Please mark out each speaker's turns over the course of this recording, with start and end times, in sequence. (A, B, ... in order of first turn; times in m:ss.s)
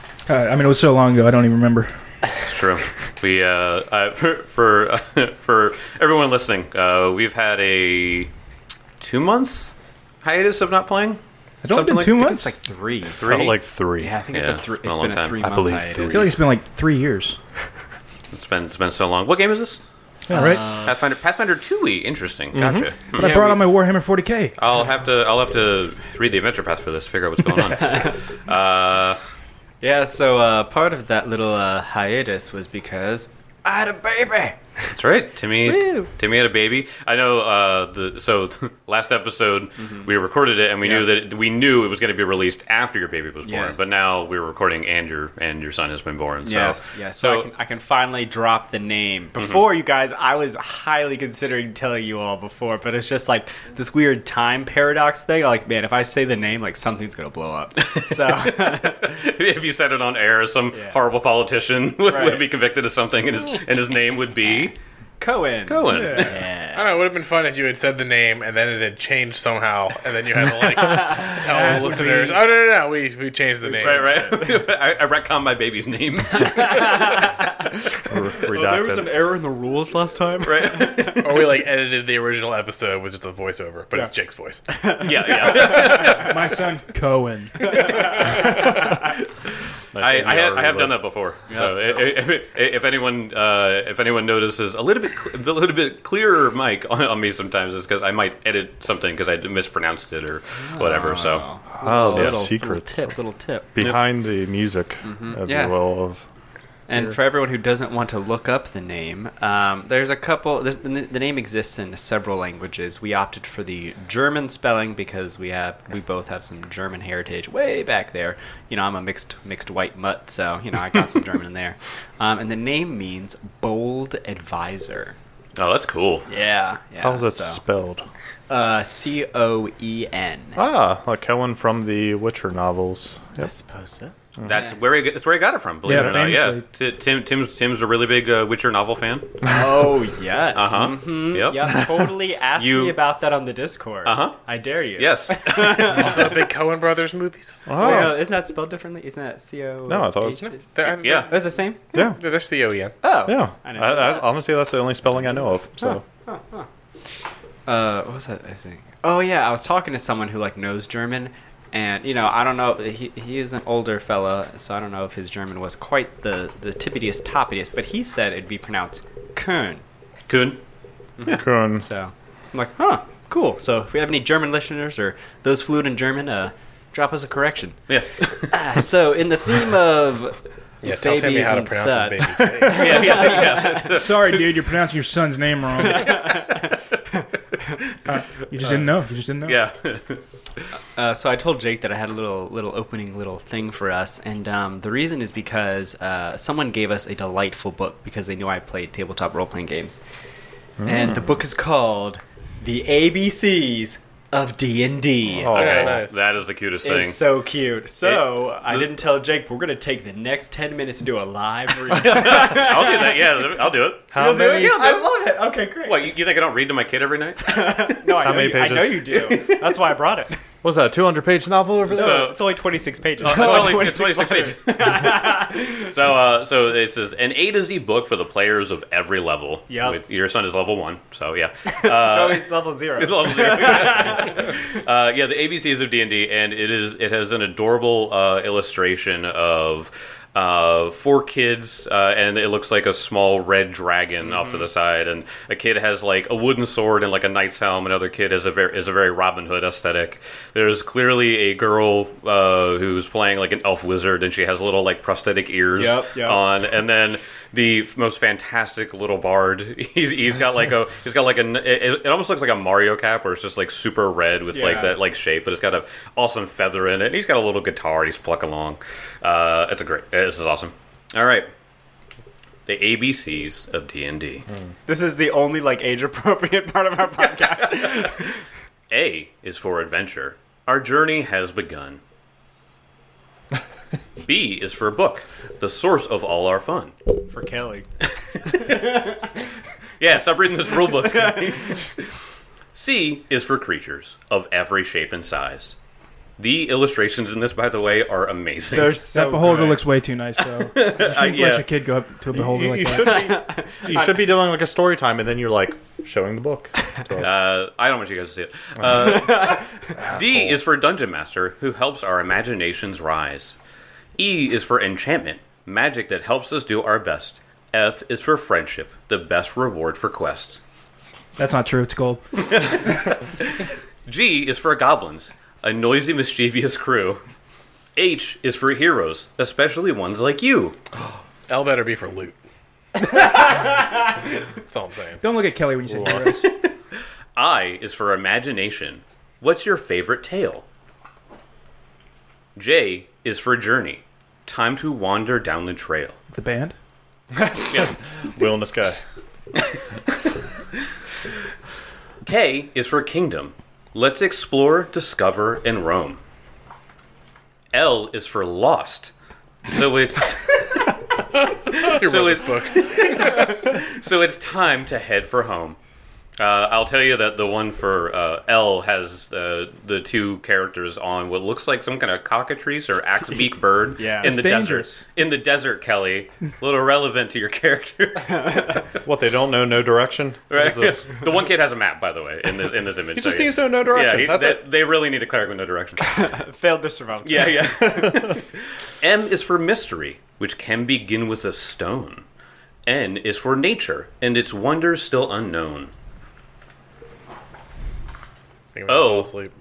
0:00.3-0:01.9 A
0:02.5-0:08.3 B
0:09.0-0:12.2 B
0:11.6-0:12.5 A
0:12.1-0:13.2 C
0:13.2-0:13.6 B
0:13.2-0:14.1 D
0:14.0-0:16.3 C
0:14.3-0:16.1 B
0:15.4-0:16.3 D
0:16.1-0:17.4 A
0:18.3-0:19.8 B
0:20.3-0:20.7 A
0:20.3-0:20.9 C
0:20.8-0:23.3 B
0:22.5-0:22.9 D
0:23.1-0:24.6 A
0:23.2-0:23.6 C
0:24.6-0:29.2 B
0:27.7-0:28.2 C
0:29.8-0:35.0 C
0:34.9-0:47.5 B
0:35.6-0:36.1 C
0:39.8-0:40.1 C
0:40.8-0:41.1 C
0:43.4-0:43.9 C
0:46.4-0:59.2 C
0:49.4-0:49.6 B
0:57.8-1:04.8 B
1:00.7-1:01.0 C
1:02.0-1:02.4 C
1:05.2-1:07.0 C
1:05.7-1:06.4 B
1:05.9-1:06.3 A
1:06.7-1:14.5 E
1:10.8-1:12.2 C
1:11.3-1:12.4 A
1:13.7-1:17.2 B
1:16.3-1:21.4 C
1:18.1-1:19.4 D
1:20.4-1:21.2 B
1:21.0-1:24.6 E
1:24.7-1:26.1 C
1:25.0-1:26.5 B
1:25.7-1:28.4 A
1:27.7-1:28.5 C
1:28.0-1:28.9 B
1:29.9-1:31.0 D
1:30.0-1:41.4 B
1:31.5-1:31.8 C
1:40.6-1:43.7 C
1:41.7-1:43.1 D
1:42.1-1:42.4 B
1:43.7-1:46.2 D
1:45.0-1:45.7 C
1:46.9-2:05.2 C
2:05.6-2:06.2 B
2:06.3-2:07.6 C
2:07.0-2:08.0 D
2:08.5-2:10.6 C
2:10.6-2:13.5 D
2:13.4-2:14.8 C
2:14.4-2:19.4 B
2:15.8-2:16.6 A
2:19.4-2:26.4 C
2:20.5-2:23.0 B
2:24.0-2:24.4 B
2:25.0-2:26.1 B
2:25.8-2:28.0 E
2:27.7-2:28.2 D
2:27.8-2:31.8 C
2:29.9-2:30.5 D
2:30.4-2:32.9 E
2:31.0-2:31.3 B
2:31.9-2:32.2 D
2:33.0-2:34.3 C
2:33.2-2:36.0 D
2:35.8-2:36.7 C
2:37.6-2:49.8 C
2:50.3-2:50.6 B
2:51.2-2:57.8 C
2:51.3-2:51.9 D
2:57.9-2:58.6 B
2:58.4-3:03.9 C
3:00.8-3:03.1 E
3:02.6-3:04.5 B
3:03.7-3:06.3 A
3:05.8-3:06.8 C
3:08.0-3:09.6 A
3:09.4-3:10.2 B
3:11.0-3:20.0 C
3:20.8-3:21.3 D
3:20.8-3:25.9 C
3:25.3-3:26.0 D
3:25.5-3:27.2 B
3:25.5-3:26.1 E
3:26.8-3:33.3 C
3:28.0-3:28.9 B
3:31.9-3:34.1 B
3:34.1-3:35.0 D
3:34.1-3:36.1 C
3:35.8-3:38.3 B
3:37.4-3:40.4 C
3:38.2-3:39.2 D
3:40.6-3:42.3 D
3:41.9-3:42.5 B
3:41.9-3:45.9 C
3:43.2-4:31.5 B
3:43.2-3:43.8 D
3:49.7-3:50.0 C
3:51.6-3:54.5 C
4:04.4-4:04.6 C
4:15.8-4:16.5 C
4:24.5-4:24.9 C
4:32.6-4:34.4 B
4:34.9-4:38.4 C
4:37.6-4:38.1 B
4:38.9-4:42.0 B
4:44.2-4:46.9 B
4:47.3-4:47.9 C
4:48.5-4:48.9 B
4:50.0-4:52.1 B
4:52.7-4:55.8 B
4:56.4-4:59.0 B
4:58.7-4:59.8 C
4:59.1-5:03.3 A
5:00.5-5:01.7 B
5:02.3-5:07.3 D
5:03.0-5:04.2 C
5:07.2-5:13.6 B
5:09.0-5:09.6 C
5:10.0-5:10.6 D
5:14.2-5:20.6 B
5:21.4-5:22.7 A
5:22.4-5:27.2 B
5:28.0-5:30.8 B
5:31.5-5:32.4 E
5:34.7-5:35.2 E
5:35.2-5:36.5 A
5:36.1-5:36.6 B
5:37.4-5:40.6 B
5:42.6-5:46.2 B
5:46.3-5:46.7 A
5:47.3-5:49.0 D
5:47.7-5:47.9 B
5:52.2-5:56.2 B
5:57.7-5:59.1 B
5:59.6-6:05.8 B
6:01.7-6:03.6 E
6:06.4-6:18.8 B
6:14.0-6:14.4 C
6:14.2-6:15.0 A
6:18.4-6:18.7 C
6:19.0-6:21.1 D
6:20.5-6:26.3 B
6:23.1-6:24.6 D
6:26.0-6:28.4 C
6:27.2-6:28.5 B
6:29.0-6:32.2 B
6:32.8-6:35.9 B
6:38.7-6:39.5 E
6:38.9-6:39.3 B